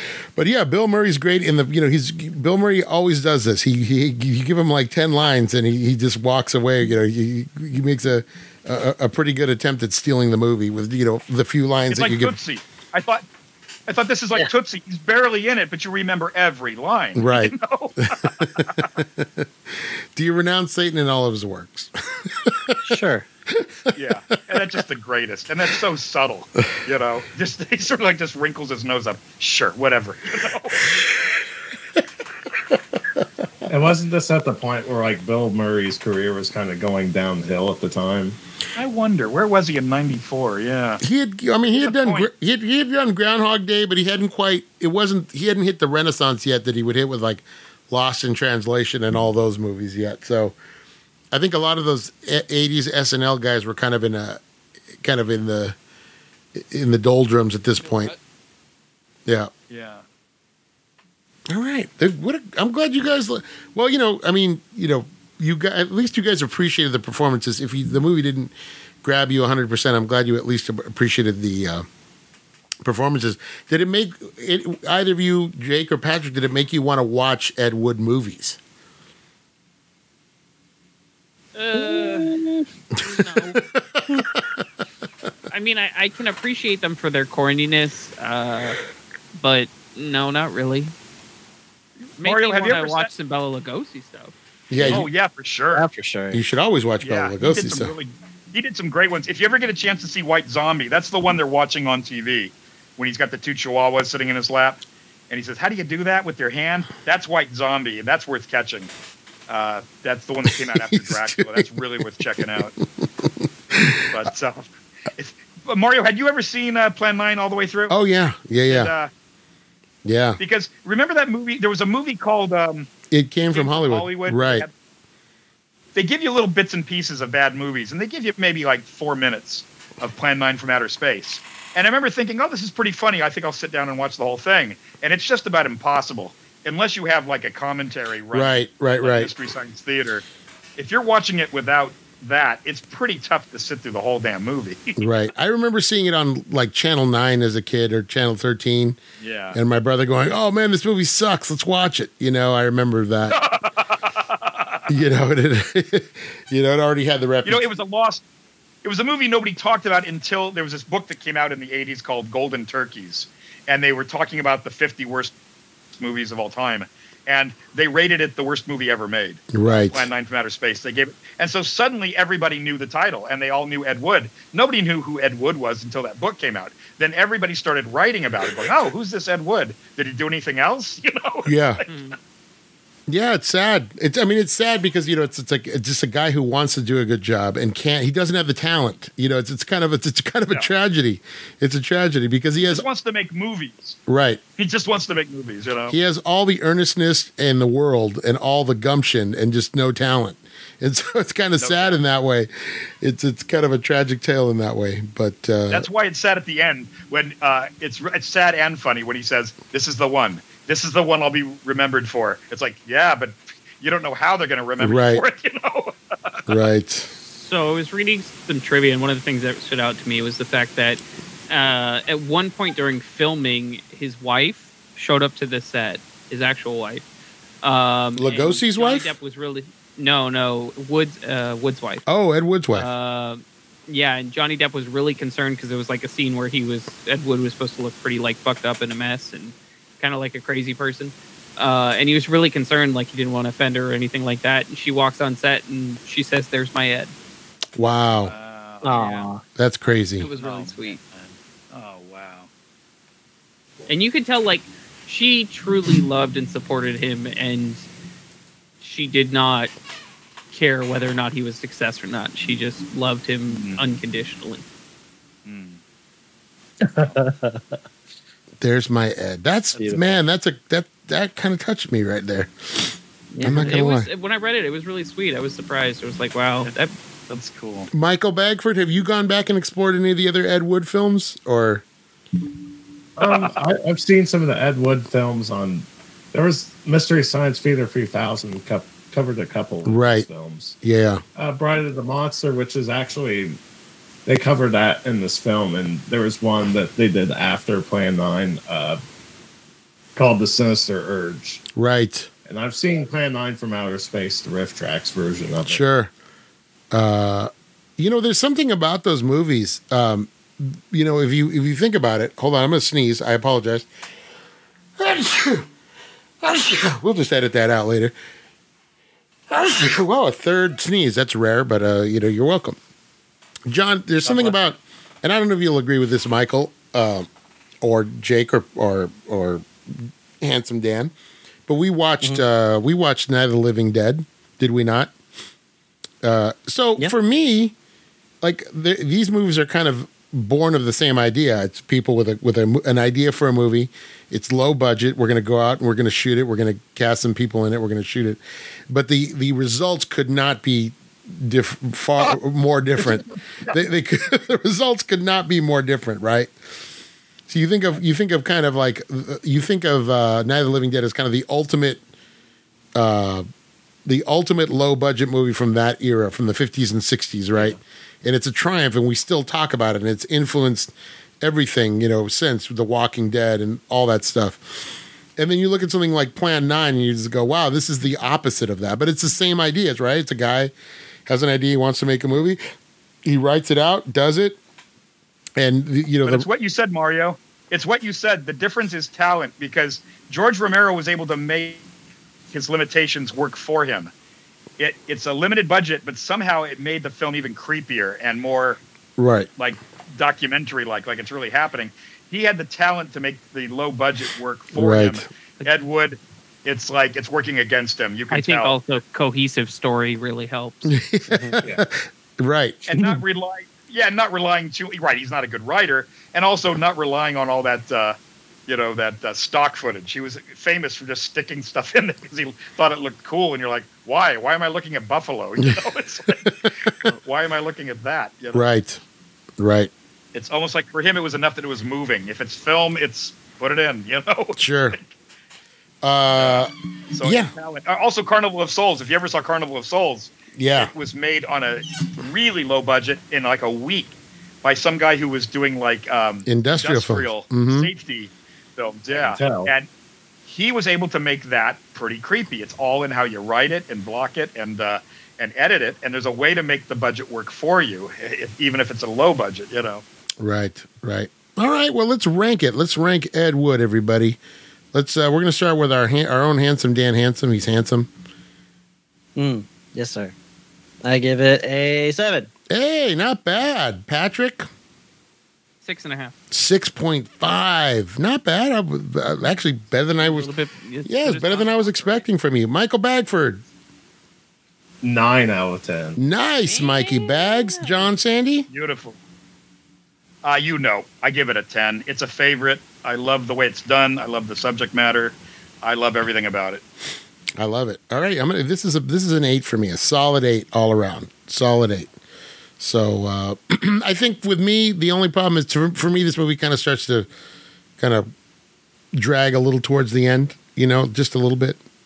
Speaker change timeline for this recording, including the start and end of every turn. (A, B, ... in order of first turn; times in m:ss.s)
0:00.4-0:12.4 A
0:11.9-0:13.2 B
0:13.9-0:18.9 B
0:17.2-0:22.8 A
0:22.8-0:23.2 C
0:23.5-0:24.0 A
0:23.9-0:30.9 B
0:33.7-0:38.4 D
0:38.7-0:41.0 B
0:41.0-0:50.6 A
0:41.8-0:42.3 B
0:51.3-0:54.4 A
0:55.0-0:55.8 A
0:56.5-0:58.1 A
0:59.2-0:59.5 A
0:59.7-1:00.0 B
1:01.5-1:11.8 A
1:12.8-1:18.6 A
1:21.6-1:22.4 E
1:22.9-1:23.6 E
1:23.0-1:24.6 A
1:25.5-1:28.8 E
1:29.3-1:30.9 E
1:32.2-1:34.3 E
1:32.2-1:33.1 B
1:34.7-1:35.1 A
1:34.8-1:35.8 B
1:35.7-1:36.4 C
1:36.3-1:37.9 A
1:37.0-1:48.9 B
1:49.5-1:52.7 B
1:50.4-1:51.7 A
1:53.2-1:54.1 A
1:54.1-1:58.0 B
1:57.9-1:58.9 A
1:58.7-1:59.1 B
2:00.0-2:00.4 A
2:00.4-2:02.9 B
2:03.1-2:04.6 A
2:03.5-2:04.7 B
2:05.9-2:20.2 B
2:18.3-2:19.3 A
2:20.8-2:25.0 B
2:25.0-2:29.0 A
2:29.2-2:29.6 B
2:29.5-2:33.4 A
2:33.3-2:34.9 B
2:34.9-2:37.7 A
2:37.4-2:38.2 B
2:38.8-2:45.3 B
2:46.0-3:01.9 B
2:49.5-2:50.1 A
3:01.4-3:01.8 A
3:01.8-3:02.2 E
3:03.1-3:12.8 A
3:12.6-3:14.0 B
3:14.1-3:14.4 A
3:14.6-3:16.0 B
3:15.9-3:25.9 A
3:21.6-3:22.0 B
3:25.7-3:36.6 B
3:34.8-3:35.2 A
3:36.5-3:37.1 A
3:37.1-3:47.0 E
3:47.6-3:52.0 E
3:48.2-3:49.1 A
3:52.0-3:52.9 A
3:52.7-4:07.1 E
4:07.8-4:08.3 A
4:08.2-4:09.3 B
4:08.8-4:09.4 C
4:09.6-4:10.3 A
4:10.2-4:11.0 E
4:10.3-4:12.5 B
4:13.9-4:17.8 E
4:18.8-4:19.7 E
4:20.5-4:24.6 E
4:23.5-4:23.8 B
4:25.4-4:25.8 B
4:26.8-4:27.6 C
4:28.6-4:34.1 A
4:29.8-4:30.1 C
4:33.3-4:36.9 E
4:37.3-4:37.9 B
4:37.9-4:41.8 A
4:43.2-4:50.8 D
4:43.2-4:43.6 B
4:49.8-4:50.3 A
4:50.8-4:51.2 A
4:51.4-4:53.6 D
4:54.2-4:59.0 D
5:00.2-5:01.6 D
5:01.7-5:02.3 A
5:02.5-5:05.8 D
5:05.7-5:06.1 A
5:06.9-5:13.9 A
5:15.0-5:15.7 A
5:16.4-5:18.1 A
5:19.5-5:22.8 A
5:23.7-5:27.3 A
5:24.2-5:24.5 B
5:27.8-5:31.1 A
5:31.7-5:35.1 A
5:36.2-5:37.7 A
5:38.4-5:56.5 A
5:57.5-6:02.0 A
6:02.9-6:03.4 A
6:04.0-6:20.7 A
6:21.2-6:22.6 A
6:23.2-6:24.6 A
6:25.6-6:26.4 A
6:26.2-6:31.8 B
6:32.5-6:34.1 B
6:34.8-6:38.8 B
6:39.2-6:39.5 A
6:39.6-6:48.7 B
6:44.7-6:45.2 A
6:48.3-6:50.9 E
6:50.8-6:52.8 A
6:51.5-6:51.8 D
6:52.8-7:06.5 B
7:06.4-7:06.7 A
7:07.0-7:08.7 B
7:08.5-7:09.0 A
7:09.6-7:09.9 A
7:10.3-7:15.1 B
7:14.6-7:15.0 A
7:16.0-7:17.5 A
7:16.3-7:29.9 B
7:20.6-7:20.9 A
7:26.4-7:27.9 A
7:29.1-7:29.7 D
7:30.5-7:40.0 B
7:40.4-7:44.4 A
7:44.9-7:48.1 A
7:49.4-7:50.3 C
7:51.0-7:52.5 C
7:52.7-7:54.7 A
7:55.8-7:56.3 E
7:56.5-8:00.5 A
8:00.2-8:02.2 E
8:01.0-8:03.6 A
8:05.0-8:06.2 D
8:06.2-8:08.7 A
8:06.6-8:08.1 E
8:08.7-8:09.2 B
8:10.4-8:16.8 B
8:17.6-8:22.1 A
8:22.8-8:27.3 A
8:28.0-8:28.3 A
8:29.1-8:31.8 A